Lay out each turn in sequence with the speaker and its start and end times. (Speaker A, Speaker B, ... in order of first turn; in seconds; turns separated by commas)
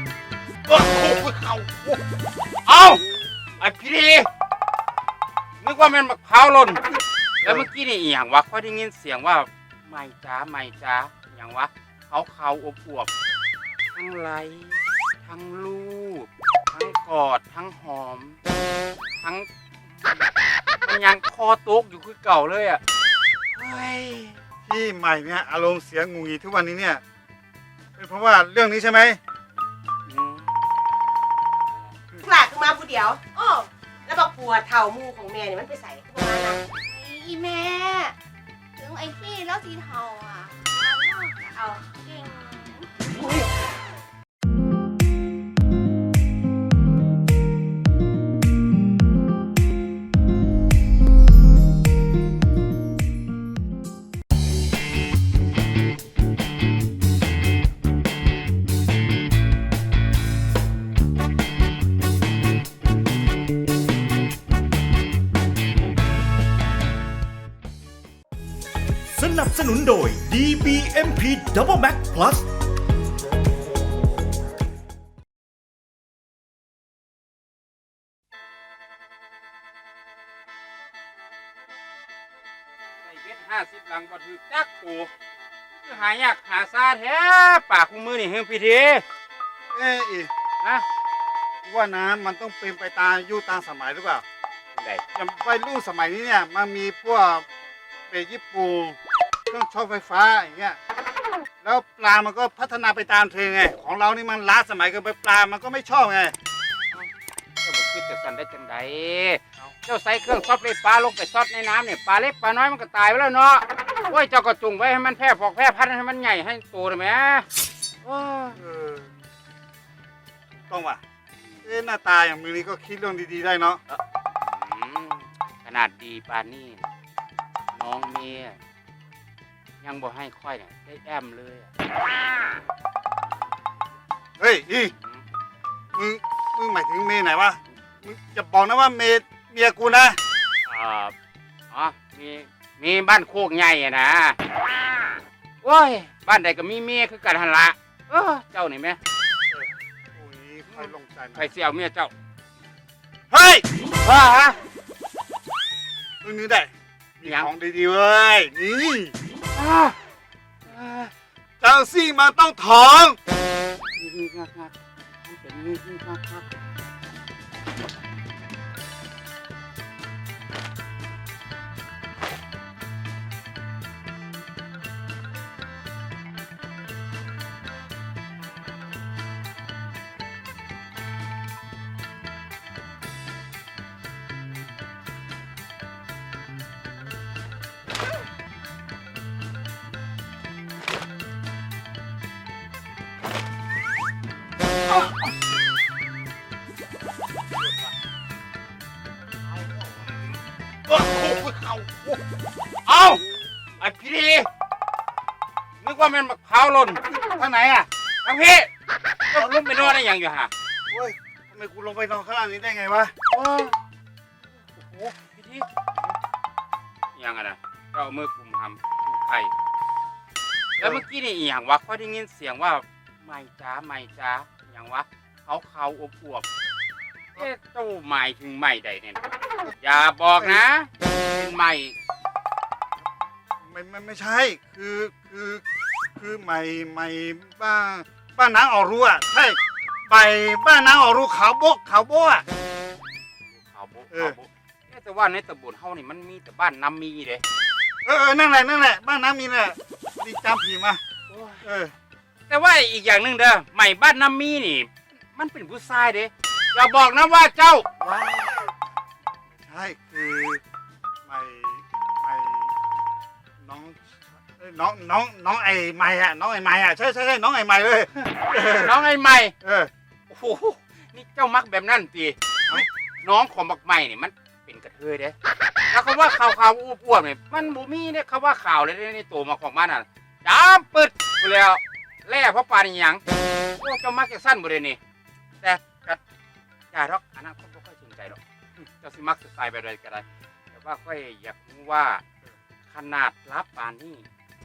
Speaker A: 0.7-2.0, Speaker A: 2.6-3.0, Speaker A: 3.6-4.3, Speaker A: 5.6-6.8, Speaker A: 7.4-13.1, Speaker A: 13.9-18.4, Speaker A: 19.2-20.2, Speaker A: 20.8-22.8, Speaker A: 23.5-24.4, Speaker B: 24.7-27.0, Speaker B: 27.9-29.2, Speaker A: 30.1-30.5, Speaker C: 32.2-36.6, Speaker D: 36.8-38.1, Speaker D: 38.8-43.0, Speaker E: 69.1-72.5, Speaker A: 83.0-85.1, Speaker A: 85.7-89.0, Speaker B: 89.7-90.3, Speaker B: 91.6-94.2, Speaker A: 94.8-95.0, Speaker B: 95.2-97.5, Speaker B: 98.1-99.0, Speaker B: 99.5-100.8, Speaker B: 101.6-106.3, Speaker A: 107.6-117.5, Speaker A: 118.0-118.6, Speaker B: 118.5-119.1, Speaker B: 120.7-121.0, Speaker B: 121.6-123.8, Speaker A: 123.9-126.8, Speaker A: 127.7-128.6, Speaker A: 129.8-131.7, Speaker B: 134.4-134.9, Speaker B: 135.9-140.2, Speaker A: 140.7-141.1, Speaker A: 141.7-144.4, Speaker A: 145.6-149.0, Speaker B: 149.5-151.5, Speaker A: 150.7-152.1, Speaker B: 153.3-153.6, Speaker A: 154.0-154.5, Speaker B: 156.2-159.1, Speaker A: 157.2-157.5, Speaker A: 159.5-159.9, Speaker A: 160.6-161.1, Speaker B: 161.6-163.2, Speaker A: 163.9-164.7, Speaker A: 165.2-166.4, Speaker A: 200.9-202.0, Speaker A: 202.9-203.2, Speaker A: 203.8-204.5, Speaker A: 205.8-208.7, Speaker A: 209.3-210.5, Speaker B: 209.4-209.9, Speaker B: 210.9-213.1, Speaker A: 213.3-213.7, Speaker A: 214.7-215.7, Speaker A: 217.1-219.5, Speaker B: 220.8-221.0, Speaker A: 220.8-226.5, Speaker A: 227.3-229.2, Speaker A: 229.8-231.9, Speaker B: 230.4-230.6, Speaker B: 233.6-235.6, Speaker B: 236.2-239.6, Speaker B: 240.1-242.4, Speaker A: 243.5-247.4, Speaker B: 244.1-244.4, Speaker B: 248.0-251.0, Speaker A: 251.3-251.6, Speaker B: 251.6-251.9, Speaker A: 252.5-257.9, Speaker B: 258.0-258.7, Speaker B: 259.6-260.6, Speaker B: 261.2-262.7, Speaker B: 263.6-264.0, Speaker B: 264.6-269.0, Speaker A: 268.6-269.5, Speaker B: 269.6-269.9, Speaker A: 270.3-275.4, Speaker A: 275.9-283.2, Speaker A: 283.8-285.0, Speaker A: 285.6-286.2, Speaker A: 286.9-288.4, Speaker A: 289.0-292.2, Speaker A: 292.8-294.3